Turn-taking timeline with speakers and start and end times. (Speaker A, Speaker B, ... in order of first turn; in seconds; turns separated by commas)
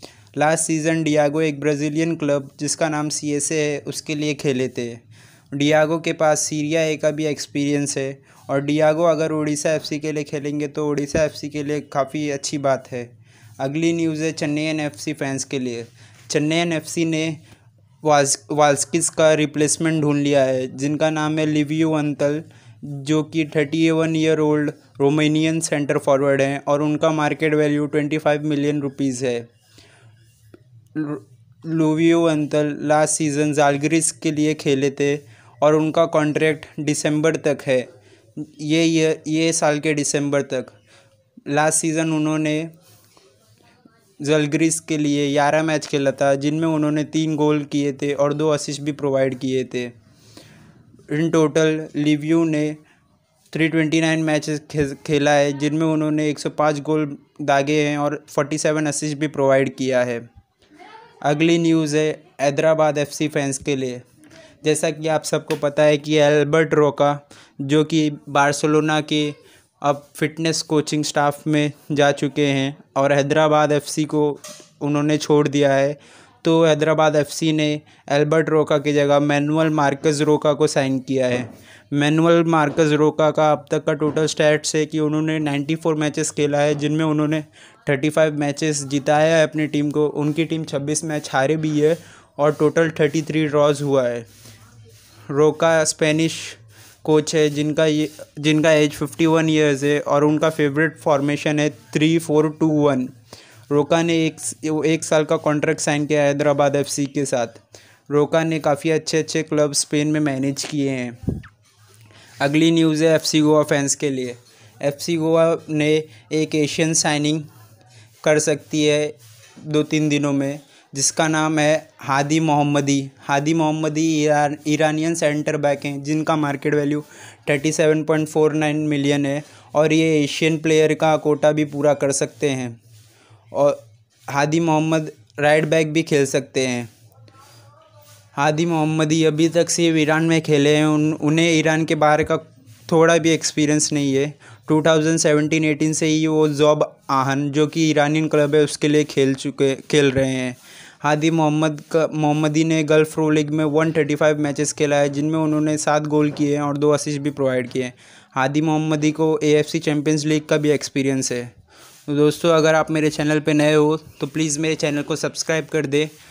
Speaker A: 0.4-17.4, Speaker A: 18.0-29.5, Speaker A: 30.9-40.7, Speaker A: 41.5-42.7, Speaker A: 44.2-49.9, Speaker A: 51.1-52.8, Speaker A: 53.5-60.2, Speaker A: 61.2-64.0, Speaker A: 64.6-94.3, Speaker A: 95.3-103.1, Speaker A: 103.7-111.2, Speaker A: 112.4-117.5, Speaker A: 118.2-132.8, Speaker A: 133.5-136.9, Speaker A: 138.3-161.5, Speaker A: 162.1-166.1